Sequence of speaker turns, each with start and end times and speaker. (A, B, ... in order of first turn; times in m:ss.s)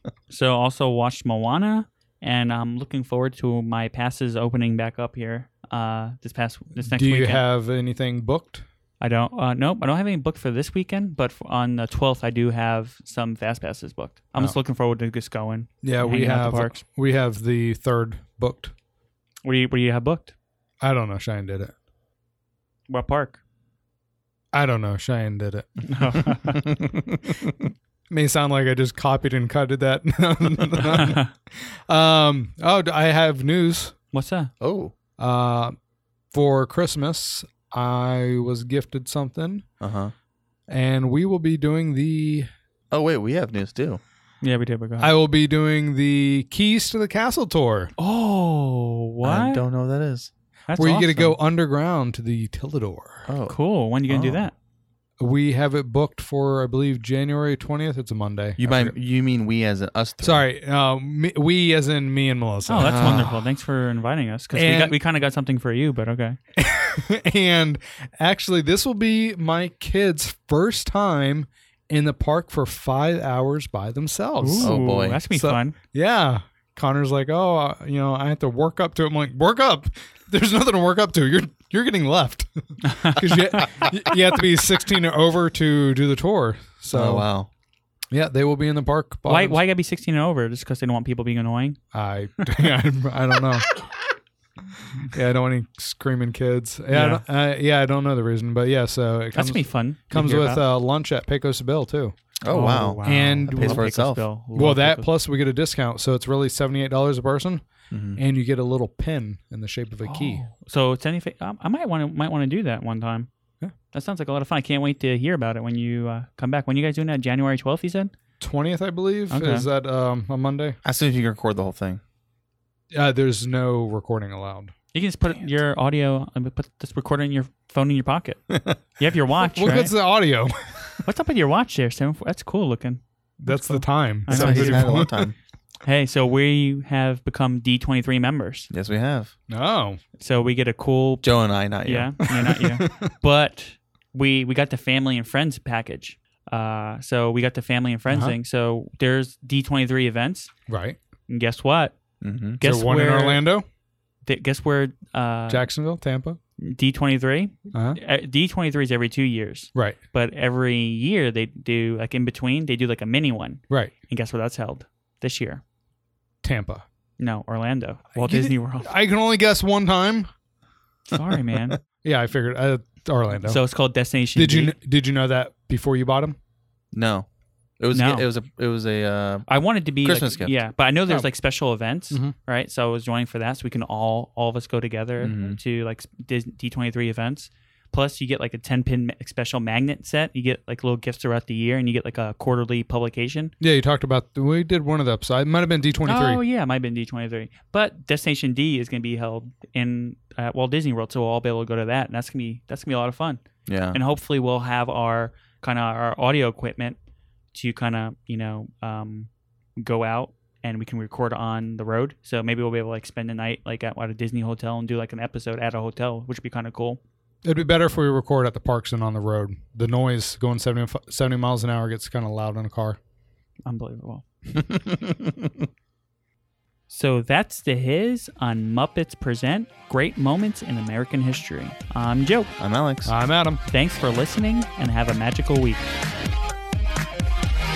0:00.3-0:07.4 A
0:06.8-0:08.6 B
0:09.0-0:16.8 A
0:15.8-0:18.7 B
0:19.4-0:20.3 A
0:20.8-0:21.7 B
0:22.9-0:23.4 A
0:24.5-0:26.3 B
0:25.8-0:26.6 A
0:28.1-0:31.3 B
0:30.8-0:31.3 A
0:31.9-0:33.9 B
0:34.1-0:34.5 A
0:34.6-0:34.9 C
0:35.2-0:35.7 B
0:36.3-0:39.6 B
0:39.8-0:40.1 C
0:40.7-0:42.5 B
0:42.9-0:44.0 C
0:44.4-0:45.2 A
0:45.0-0:47.9 B
0:48.0-0:49.6 A
0:49.2-0:50.3 C
0:50.7-0:51.4 A
0:50.8-0:53.3 B
0:53.3-0:53.6 C
0:53.5-0:54.5 A
0:54.1-0:54.5 C
0:55.2-0:58.9 B
0:58.6-1:00.4 C
1:00.2-1:03.3 B
1:02.7-1:06.4 A
1:02.8-1:03.4 C
1:04.5-1:04.9 B
1:06.6-1:14.8 B
1:14.4-1:15.8 A
1:14.6-1:15.2 C
1:15.3-1:27.3 B
1:22.8-1:23.7 A
1:26.9-1:27.5 C
1:28.1-1:29.6 B
1:29.2-1:31.8 A
1:31.9-1:33.8 B
1:35.1-1:42.2 B
1:36.9-1:37.2 A
1:39.3-1:40.6 A
1:42.4-1:44.2 C
1:42.5-1:45.1 A
1:43.0-1:43.8 B
1:44.5-1:47.6 B
1:47.9-1:48.2 C
1:48.2-1:50.4 B
1:50.1-1:53.3 A
1:53.9-1:58.1 A
1:58.4-2:00.8 B
1:59.3-1:59.7 A
2:00.8-2:02.0 C
2:02.9-2:04.7 B
2:04.9-2:09.9 A
2:09.4-2:11.0 B
2:11.0-2:15.0 A
2:13.4-2:15.3 B
2:14.3-2:15.3 C
2:15.8-2:18.7 A
2:18.7-2:19.3 C
2:19.5-2:20.0 B
2:20.2-2:21.3 A
2:21.2-2:22.3 C
2:21.8-2:30.5 A
2:22.6-2:23.1 B
2:28.1-2:28.4 B
2:30.7-2:31.0 B
2:31.3-2:31.9 A
2:32.2-2:32.6 C
2:32.6-2:33.4 A
2:32.6-2:33.6 B
2:34.2-2:35.7 A
2:35.5-2:36.4 B
2:36.6-2:45.6 A
2:37.7-2:38.0 B
2:46.4-2:46.8 B
2:47.2-2:48.9 A
2:48.2-2:50.3 B
2:51.1-2:51.8 A
2:52.0-2:53.6 B
2:53.4-2:54.7 A
2:54.3-2:56.4 B
2:56.9-2:57.3 C
2:57.8-2:59.4 C
2:57.9-2:58.2 A
2:59.5-3:13.5 A
3:00.0-3:00.6 C
3:05.2-3:05.6 C
3:13.6-3:16.4 B
3:16.0-3:27.0 A
3:23.7-3:24.0 C
3:27.5-3:37.0 A
3:37.4-3:43.0 B
3:43.6-3:44.2 A
3:44.6-3:45.6 C
3:46.9-3:52.5 A
3:52.6-3:53.1 C
3:53.0-3:53.6 B
3:53.7-3:55.9 A